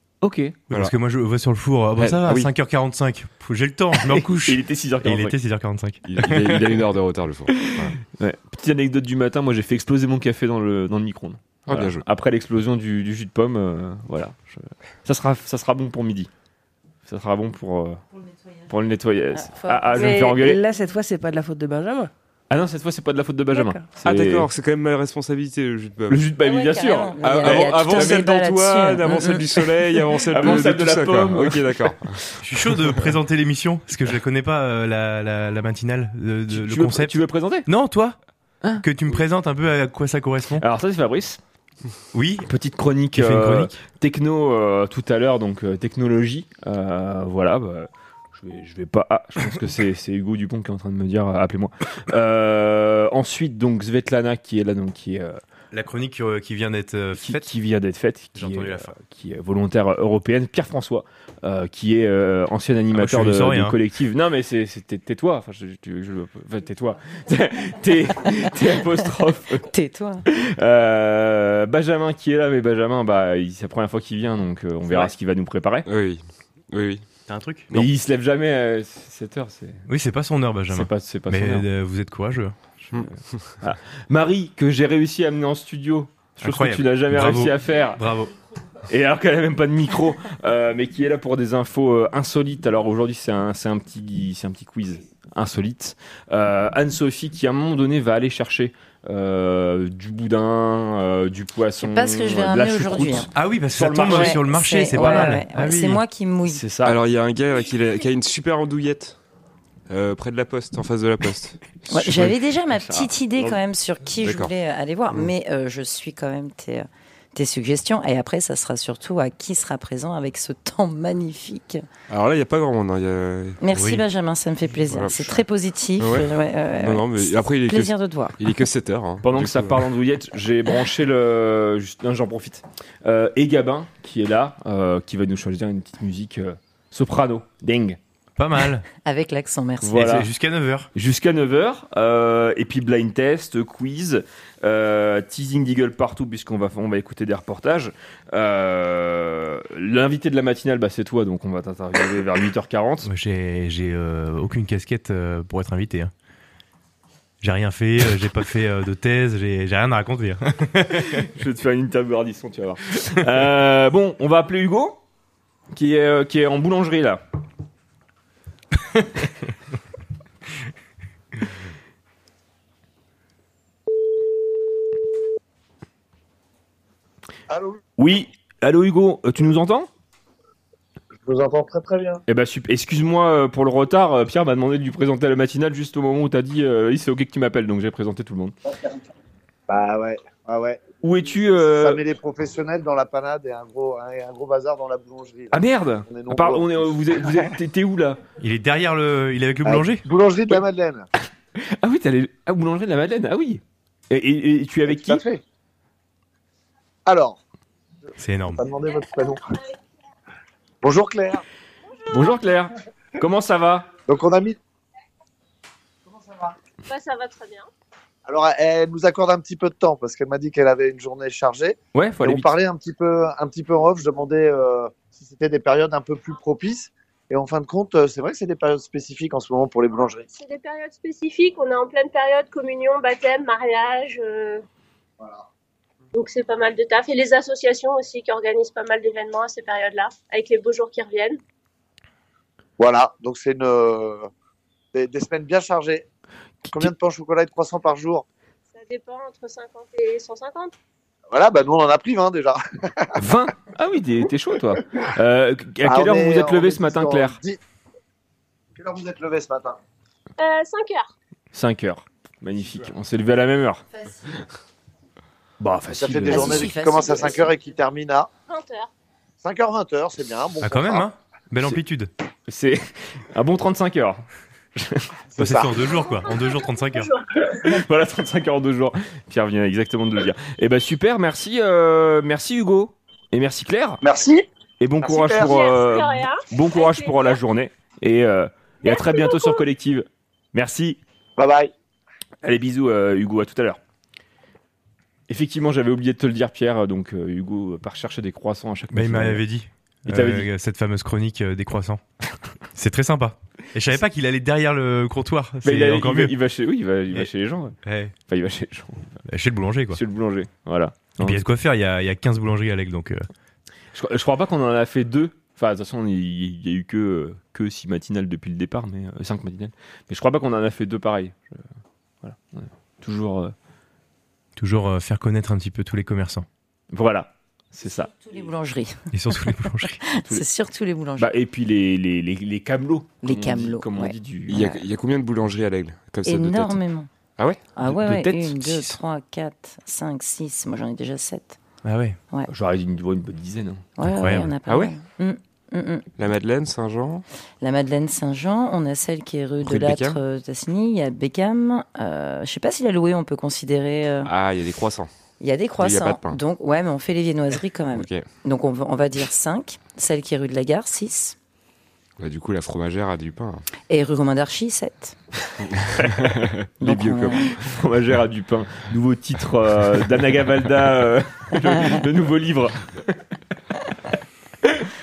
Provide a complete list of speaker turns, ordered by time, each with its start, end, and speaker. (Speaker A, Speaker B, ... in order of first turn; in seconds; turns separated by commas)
Speaker A: 0.2-0.6, Speaker B: 0.7-6.7, Speaker C: 2.0-2.5, Speaker A: 4.1-5.3, Speaker C: 6.0-7.9, Speaker A: 7.7-16.3, Speaker C: 11.7-12.0, Speaker A: 17.1-18.0, Speaker A: 18.7-20.6, Speaker D: 19.3-20.2, Speaker E: 20.0-22.1, Speaker A: 22.5-24.5, Speaker E: 23.5-23.9, Speaker C: 24.0-26.3, Speaker A: 26.1-29.3, Speaker D: 26.4-30.2, Speaker C: 27.2-32.2, Speaker A: 30.3-31.9, Speaker B: 32.4-38.2, Speaker A: 36.5-37.7, Speaker B: 38.8-40.6, Speaker A: 40.6-41.4, Speaker B: 42.1-42.5, Speaker A: 42.5-55.4, Speaker B: 43.1-43.8, Speaker B: 55.7-57.5, Speaker A: 57.1-69.6, Speaker B: 58.3-58.9, Speaker B: 62.9-63.8, Speaker D: 69.7-70.2, Speaker A: 70.3-75.8, Speaker C: 75.8-77.0, Speaker B: 77.3-77.7, Speaker A: 77.7-79.8, Speaker B: 79.9-82.6, Speaker A: 80.7-81.7, Speaker A: 82.9-88.0, Speaker B: 86.4-88.3, Speaker A: 88.9-105.4, Speaker D: 101.8-103.3, Speaker B: 103.3-106.0, Speaker D: 104.0-106.6, Speaker A: 106.5-107.0, Speaker C: 106.8-109.2, Speaker C: 109.9-112.3, Speaker D: 111.9-121.8, Speaker C: 114.2-114.5, Speaker C: 122.1-123.6, Speaker D: 123.6-128.4, Speaker B: 123.7-124.0, Speaker C: 124.9-125.4, Speaker C: 126.0-129.8, Speaker A: 129.2-138.0, Speaker B: 138.4-138.8, Speaker D: 139.0-140.0, Speaker A: 139.8-140.3, Speaker B: 139.9-140.9, Speaker A: 140.9-153.1, Speaker B: 153.0-156.1, Speaker B: 157.4-161.2, Speaker A: 161.1-165.0, Speaker A: 165.7-167.2, Speaker F: 177.5-177.8, Speaker A: 178.0-179.9, Speaker F: 181.3-182.2, Speaker A: 182.3-188.5, Speaker F: 189.7-190.8, Speaker A: 191.0-192.0, Speaker F: 191.7-196.9, Speaker A: 195.5-198.2, Speaker B: 198.4-200.1, Speaker F: 199.7-201.0, Speaker A: 201.8-205.2, Speaker F: 204.9-205.4, Speaker F: 207.1-207.4, Speaker B: 208.2-208.6, Speaker F: 208.5-209.4, Speaker F: 210.8-211.4, Speaker A: 212.1-213.9, Speaker F: 214.1-214.6, Speaker F: 216.1-216.5, Speaker G: 216.9-217.7, Speaker F: 218.2-230.2, Speaker A: 221.9-222.6, Speaker G: 230.3-234.6, Speaker G: 236.1-241.4, Speaker F: 242.8-244.3, Speaker F: 244.9-246.0, Speaker F: 246.7-248.2, Speaker G: 248.7-250.7, Speaker F: 251.3-252.6, Speaker A: 253.2-257.4, Speaker F: 255.8-257.6, Speaker F: 258.8-259.8, Speaker G: 260.4-261.1, Speaker A: 261.5-263.8, Speaker A: 265.6-266.7, Speaker F: 265.9-268.3, Speaker D: 266.3-267.5, Speaker G: 268.5-268.9, Speaker F: 269.4-271.0, Speaker B: 270.6-272.1, Speaker A: 272.5-274.2, Speaker A: 274.8-275.0, Speaker B: 275.3-277.1, Speaker F: 275.4-275.6, Speaker G: 275.9-277.2, Speaker A: 277.6-284.0, Speaker F: 284.0-284.4, Speaker A: 284.8-291.0, Speaker G: 285.2-287.4, Speaker G: 288.8-289.6, Speaker F: 291.4-291.7, Speaker A: 292.4-293.8, Speaker A: 295.3-299.4, Speaker B: 298.9-302.0, Speaker A: 300.1-300.5, Speaker B: 302.7-306.3, Speaker A: 305.6-307.8, Speaker B: 307.8-308.1, Speaker A: 308.3-309.2, Speaker B: 309.3-310.0, Speaker A: 309.9-311.4, Speaker B: 311.2-313.3, Speaker A: 313.9-321.6, Speaker A: 322.2-323.5, Speaker B: 324.6-326.4, Speaker A: 326.9-328.1, Speaker D: 328.2-331.3, Speaker B: 329.1-330.0, Speaker A: 331.2-334.8, Speaker D: 333.2-334.1, Speaker C: 334.5-336.8, Speaker D: 336.2-337.1, Speaker C: 337.4-337.6, Speaker D: 337.7-341.6, Speaker A: 337.9-338.9, Speaker B: 341.8-342.2, Speaker A: 342.5-343.9, Speaker D: 344.0-346.1, Speaker B: 344.0-344.6, Speaker C: 344.6-344.9, Speaker C: 346.2-347.2, Speaker D: 347.6-354.3, Speaker C: 349.6-350.2, Speaker C: 354.2-355.1, Speaker D: 355.4-361.3, Speaker C: 355.8-356.4, Speaker C: 357.9-358.3, Speaker C: 362.2-363.6, Speaker D: 363.9-365.2, Speaker C: 365.8-367.5, Speaker D: 366.8-367.5, Speaker A: 367.6-372.8